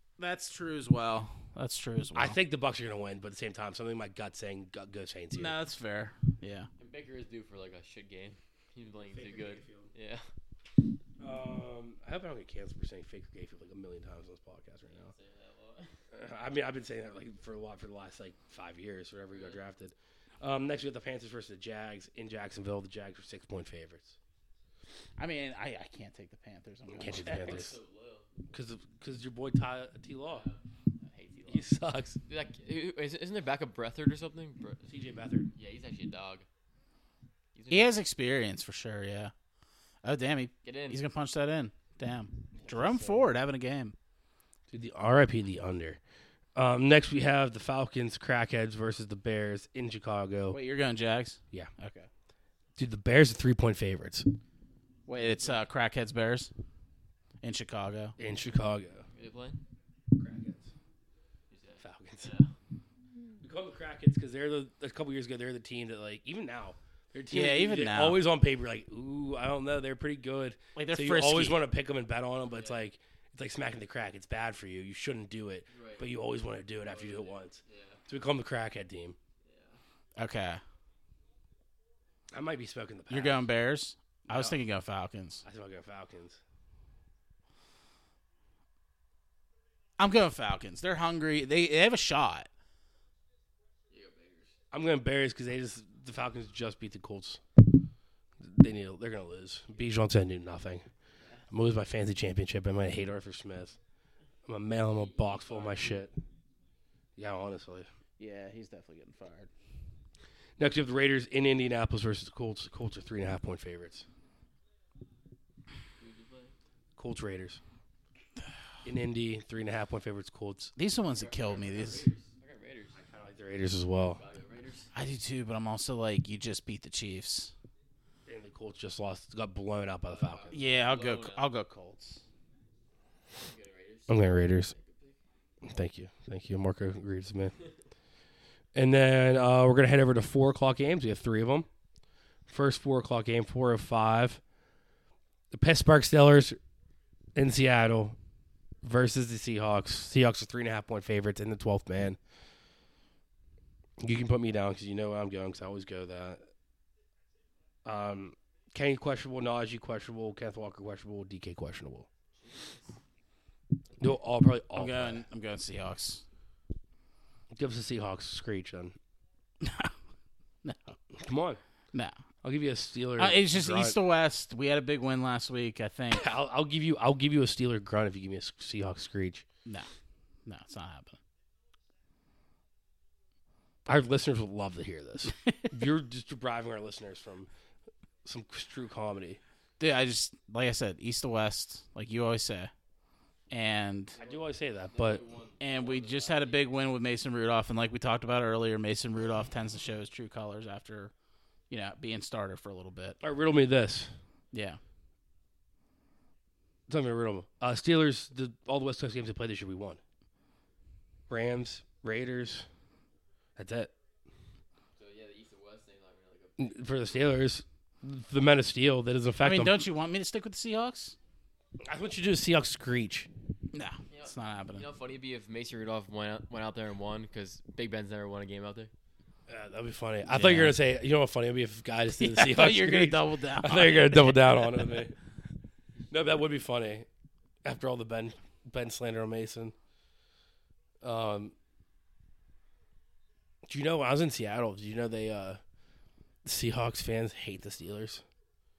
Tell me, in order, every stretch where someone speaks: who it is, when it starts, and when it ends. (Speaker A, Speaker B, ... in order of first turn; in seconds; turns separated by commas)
Speaker A: 0.2-2.4, Speaker B: 2.1-5.6, Speaker A: 5.3-6.7, Speaker C: 6.8-10.3, Speaker B: 9.0-9.9, Speaker B: 11.2-15.1, Speaker C: 14.9-15.9, Speaker B: 16.1-24.2, Speaker C: 19.3-19.6, Speaker A: 25.2-27.7, Speaker B: 26.9-27.7, Speaker C: 27.2-28.3, Speaker B: 28.5-30.5, Speaker C: 30.3-31.7, Speaker B: 31.5-32.2, Speaker C: 32.3-34.9, Speaker B: 34.9-35.5, Speaker C: 35.5-36.5, Speaker C: 37.5-37.9, Speaker A: 37.7-39.3, Speaker A: 40.0-44.0, Speaker C: 40.6-41.0, Speaker C: 42.6-43.2, Speaker B: 44.7-46.0, Speaker B: 46.6-50.6, Speaker A: 50.5-52.1, Speaker B: 52.8-54.3, Speaker A: 55.1-56.5, Speaker C: 55.2-55.6, Speaker A: 57.4-58.2, Speaker B: 58.2-59.0, Speaker C: 59.1-59.6, Speaker B: 60.1-60.7, Speaker C: 61.5-62.5, Speaker B: 61.8-62.3, Speaker B: 63.4-79.2, Speaker A: 67.3-68.2, Speaker A: 70.8-71.7, Speaker C: 72.5-72.8, Speaker C: 75.7-76.1, Speaker C: 76.8-78.0, Speaker C: 79.4-79.8, Speaker A: 80.2-80.6, Speaker B: 82.3-83.5, Speaker A: 83.1-85.4, Speaker B: 84.3-84.6, Speaker B: 85.4-86.4, Speaker A: 90.0-92.5, Speaker C: 93.9-94.5, Speaker B: 94.7-97.4, Speaker B: 98.4-100.9, Speaker C: 101.2-101.5, Speaker B: 101.5-103.8, Speaker B: 104.5-106.1, Speaker C: 104.9-106.1, Speaker B: 107.2-107.9, Speaker A: 108.2-109.5, Speaker B: 110.6-114.1, Speaker C: 116.0-116.5, Speaker B: 117.0-117.6, Speaker B: 118.8-120.7, Speaker A: 120.8-122.1, Speaker C: 121.1-123.0, Speaker B: 122.9-124.2, Speaker C: 124.1-124.9, Speaker A: 124.9-127.5, Speaker B: 128.3-130.5, Speaker C: 130.1-131.5, Speaker A: 130.5-132.2, Speaker C: 133.3-135.2, Speaker B: 134.1-134.7, Speaker B: 135.6-137.6, Speaker B: 138.8-141.7, Speaker B: 142.5-144.4, Speaker B: 145.5-146.6, Speaker B: 147.4-148.2, Speaker B: 148.8-152.2, Speaker B: 154.0-156.5, Speaker B: 157.8-162.1, Speaker C: 162.3-162.9, Speaker B: 164.0-165.2, Speaker A: 164.8-166.2, Speaker B: 167.5-169.0, Speaker A: 169.6-169.9, Speaker A: 170.6-171.0, Speaker B: 171.2-171.6, Speaker B: 172.4-174.0, Speaker A: 173.2-176.3, Speaker B: 176.1-179.4, Speaker A: 180.5-181.2, Speaker B: 183.9-187.5, Speaker B: 188.2-189.4, Speaker A: 189.8-192.7, Speaker A: 193.5-194.2, Speaker B: 194.2-195.2, Speaker C: 194.2-196.7, Speaker A: 195.6-201.1, Speaker A: 201.7-203.2, Speaker B: 203.2-204.1, Speaker A: 204.5-204.8, Speaker B: 206.9-210.0, Speaker B: 211.3-212.7, Speaker B: 213.6-213.9, Speaker C: 215.0-216.9, Speaker B: 216.6-219.8, Speaker A: 219.4-221.2, Speaker B: 221.8-223.3, Speaker A: 223.7-224.9, Speaker C: 224.1-228.9, Speaker B: 229.5-235.2, Speaker A: 230.3-230.8, Speaker A: 232.2-235.0, Speaker B: 236.1-237.1, Speaker B: 237.7-239.8, Speaker B: 241.0-241.6, Speaker B: 243.7-245.6, Speaker B: 246.4-248.2